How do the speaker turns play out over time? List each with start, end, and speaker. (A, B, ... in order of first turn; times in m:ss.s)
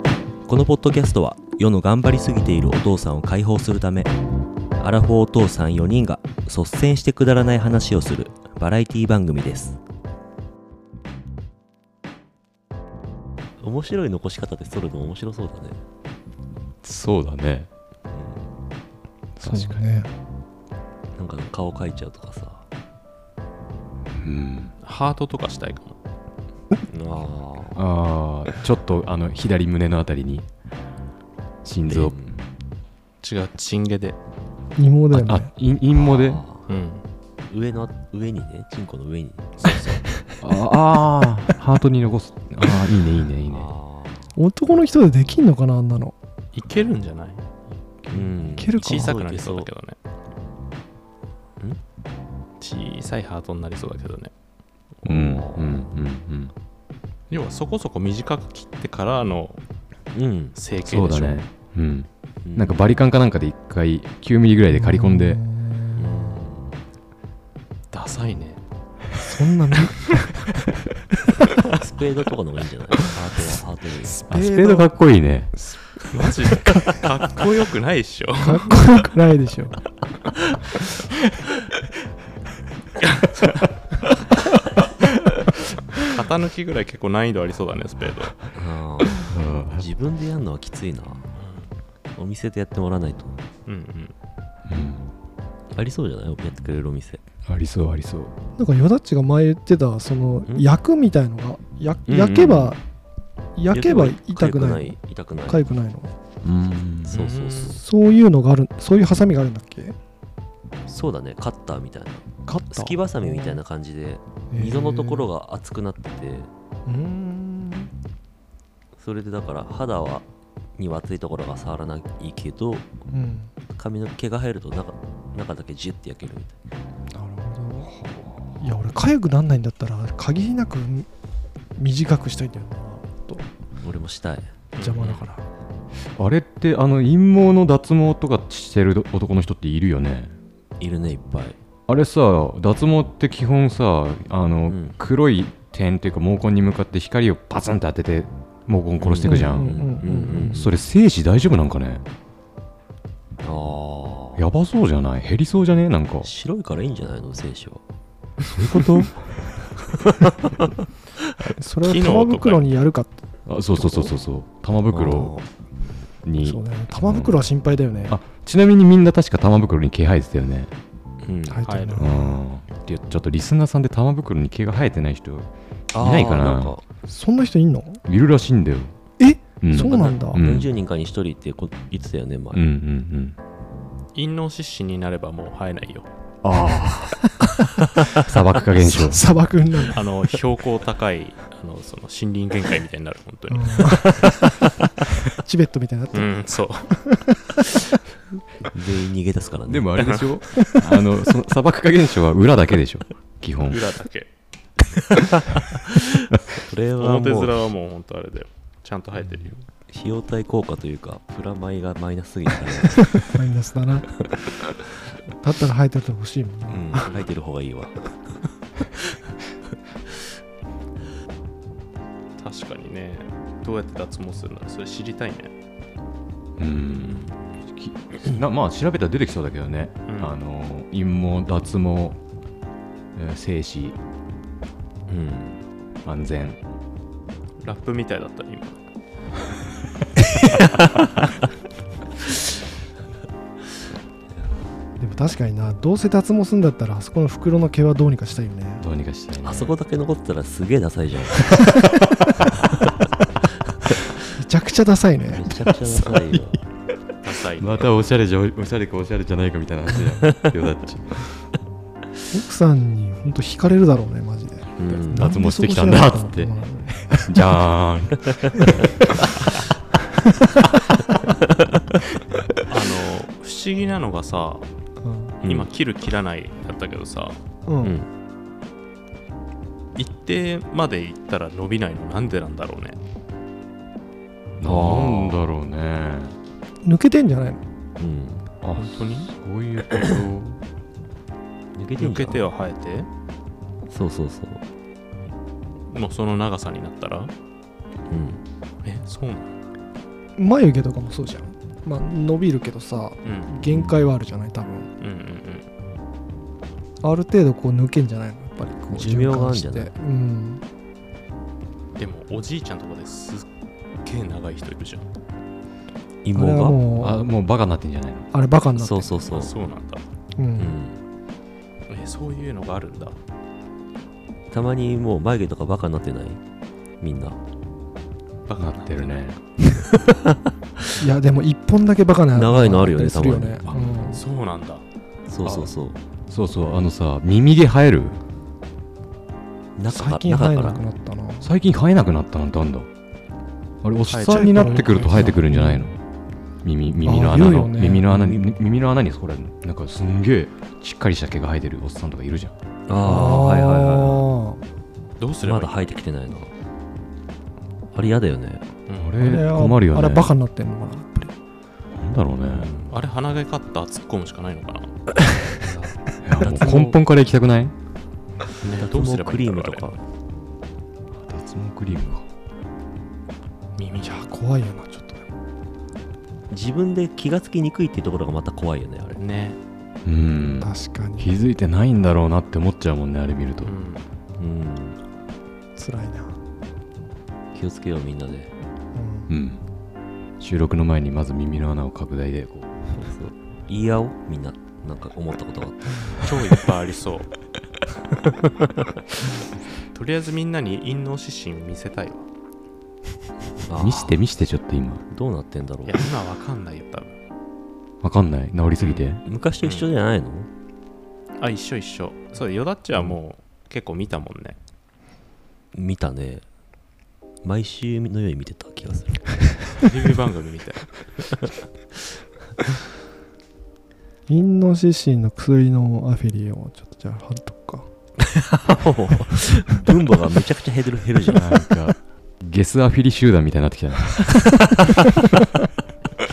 0:00.4-0:04.1 A
0:04.8-0:09.8 A
0:13.6-0:15.8 A
0:16.8-0:17.7 B
0:18.1-0:18.5 A
0:19.4-0:20.1 C
0:19.4-0:19.8 B
0:21.2-0:22.6 A
0:24.2-0:24.7 B
0:24.8-0:26.0 D
0:26.9-0:27.8 A
0:27.8-0:30.5 B
0:31.6-0:32.3 B
0:31.9-0:32.4 A
0:33.2-0:34.2 D
0:34.8-0:35.5 C
0:35.1-0:36.4 B
0:35.9-0:36.6 A
0:36.7-0:37.0 D
0:37.5-0:40.2 A
0:40.4-0:43.7 B
0:43.5-0:44.2 A
0:44.3-0:46.1 C
0:46.5-0:47.4 D
0:48.0-0:48.3 B
0:48.1-0:49.7 A
0:48.6-0:49.2 C
0:48.7-0:50.0 D
0:52.6-0:54.3 D
0:55.0-0:55.8 A
0:55.0-0:56.5 B
0:57.3-0:59.6 D
1:00.1-1:00.6 A
1:00.5-1:01.4 D
1:00.8-1:05.4 B
1:02.4-1:02.8 A
1:04.7-1:06.4 C
1:06.0-1:06.8 A
1:07.9-1:08.6 D
1:09.2-1:10.5 C
1:11.7-1:14.2 A
1:14.1-1:14.9 C
1:14.2-1:15.5 B
1:15.6-1:17.0 C
1:16.1-1:18.7 D
1:18.4-1:19.8 C
1:26.0-1:28.4 D
1:28.5-1:31.3 A
1:29.3-1:29.8 B
1:31.4-1:31.7 D
1:32.1-1:33.4 A
1:33.6-1:34.1 D
1:34.7-1:35.1 B
1:35.7-1:37.2 A
1:37.5-1:38.3 B
1:38.6-1:42.8 C
1:42.1-1:42.8 A
1:43.6-1:46.1 C
1:43.7-1:45.6 A
1:46.4-1:47.1 B
1:47.1-1:47.8 D
1:47.1-1:47.8 A
1:47.7-1:50.0 C
1:50.9-1:56.5 A
1:52.4-1:53.6 C
1:54.5-1:55.3 C
1:56.8-1:57.9 C
1:59.0-2:00.2 A
2:00.8-2:02.8 A
2:03.1-2:03.5 C
2:03.7-2:06.6 A
2:07.1-2:08.0 C
2:07.9-2:08.7 B
2:08.6-2:11.1 C
2:11.8-2:13.4 C
2:13.8-2:14.5 A
2:14.8-2:15.3 D
2:14.8-2:15.4 C
2:16.2-2:20.4 B
2:20.8-2:21.6 A
2:21.9-2:32.0 B
2:24.7-2:25.0 A
2:29.0-2:30.8 A
2:29.2-2:30.6 C
2:33.4-2:34.4 A
2:34.4-2:36.3 B
2:36.2-2:37.8 A
2:38.5-2:39.2 B
2:41.4-2:43.2 C
2:41.8-2:42.6 D
2:43.5-2:45.4 B
2:43.8-2:44.1 A
2:44.9-2:45.4 A
2:46.2-2:47.4 B
2:46.4-2:48.2 C
2:48.1-2:50.7 B
2:51.2-2:51.7 A
2:51.5-2:52.4 C
2:51.6-2:52.1 D
2:52.0-2:56.8 B
2:55.9-2:56.8 A
2:57.1-2:58.0 C
2:58.0-2:58.9 B
2:59.2-3:00.4 C
2:59.6-3:00.7 B
2:59.7-3:02.6 A
3:02.5-3:03.4 B
3:04.1-3:06.1 D
3:06.4-3:07.2 B
3:08.2-3:09.3 B
3:08.7-3:10.1 C
3:09.9-3:14.5 D
3:13.5-3:14.2 C
3:15.3-3:17.3 C
3:16.1-3:17.7 D
3:18.7-3:20.0 A
3:19.7-3:23.9 B
3:20.0-3:20.3 D
3:23.6-3:24.3 D
3:24.9-3:25.4 D
3:26.5-3:27.6 A
3:27.0-3:29.6 D
3:29.9-3:33.3 A
3:33.1-3:34.3 C
3:35.4-3:37.1 C
3:36.7-3:38.2 A
3:37.0-3:37.3 D
3:42.4-3:45.5 D
3:46.6-3:52.2 B
3:50.0-3:50.4 D
3:53.1-3:54.0 B
3:55.1-3:55.6 A
3:56.0-3:56.6 B
3:57.6-3:58.8 D
4:05.0-4:08.8 C
4:08.8-4:09.7 B
4:09.4-4:11.7 A
4:14.3-4:16.4 C
4:15.3-4:16.6 A
4:17.2-4:17.9 D
4:17.6-4:21.2 B
4:22.3-4:27.4 C
4:24.8-4:25.4 A
4:25.1-4:26.5 B
4:27.2-4:28.8 B
4:32.7-4:34.7 D
4:35.0-4:35.4 C
4:35.4-4:37.4 D
4:35.4-4:35.7 A
4:37.7-4:38.0 C
4:37.8-4:38.1 A
4:39.9-4:43.0 D
4:44.6-4:46.4 B
4:44.6-4:45.3 A
4:46.8-4:47.6 C
4:48.0-4:48.4 A
4:48.6-4:50.6 B
4:48.8-4:49.3 D
4:51.7-4:52.5 A
4:52.0-4:53.1 D
4:53.9-4:54.6 A
4:55.9-4:57.3 D
4:58.1-4:58.4 A
4:58.8-4:59.5 D
5:00.4-5:04.9 C
5:03.2-5:03.6 D
5:03.7-5:04.0 A
5:05.0-5:05.7 D
5:07.0-5:10.6 C
5:08.9-5:09.9 A
5:12.0-5:13.5 D
5:14.0-5:15.1 D
5:16.2-5:16.8 A
5:16.3-5:17.3 C
5:16.8-5:18.3 B
5:18.3-5:19.1 C
5:18.7-5:19.5 A
5:19.3-5:20.0 D
5:20.4-5:20.8 C
5:20.6-5:21.0 A
5:21.9-5:23.2 D
5:24.5-5:26.4 A
5:27.0-5:27.4 A
5:28.5-5:29.2 D
5:28.6-5:29.4 B
5:31.0-5:34.2 C
5:32.3-5:34.0 A
5:33.7-5:34.8 D
5:35.3-5:36.0 A
5:35.4-5:35.8 B
5:36.3-5:38.2 B
5:39.8-5:40.8 A
5:39.9-5:41.5 C
5:41.4-5:42.9 B
5:43.8-5:46.0 B
5:44.1-5:45.2 D
5:44.3-5:45.9 C
5:46.6-5:52.5 B
5:47.0-5:48.2 C
5:52.9-5:54.3 A
5:53.0-5:54.6 C
5:55.2-5:55.8 D
5:55.4-5:56.5 A
5:57.9-5:58.6 A
5:58.9-5:59.3 D
5:58.9-6:00.3 B
5:59.2-6:01.3 C
6:01.9-6:02.7 B
6:02.5-6:03.0 A
6:02.9-6:04.9 D
6:05.6-6:07.0 A
6:06.2-6:07.7 B
6:08.6-6:09.9 D
6:08.7-6:10.0 A
6:11.2-6:12.2 B
6:13.8-6:14.3 D
6:14.0-6:15.3 C
6:16.5-6:19.2 A
6:19.2-6:19.6 D
6:20.0-6:23.7 B
6:20.6-6:21.3 C
6:23.6-6:24.0 D
6:24.4-6:25.0 A
6:25.8-6:26.4 C
6:27.5-6:28.5 A
6:28.9-6:29.3 C
6:29.3-6:29.6 B
6:30.4-6:32.7 B
6:32.9-6:36.2 A
6:36.2-6:37.3 D
6:39.9-6:42.3 D
6:43.6-6:44.2 A
6:43.7-6:45.0 B
6:45.1-6:46.0 A
6:45.8-6:47.2 D
6:48.0-6:49.2 B
6:48.8-6:49.9 D
6:49.2-6:50.5 A
6:51.4-6:54.6 D
6:55.7-6:56.4 A
6:57.4-6:59.7 A
6:59.8-7:00.9 D
7:04.3-7:07.9 C
7:08.3-7:11.5 A
7:11.3-7:14.5 B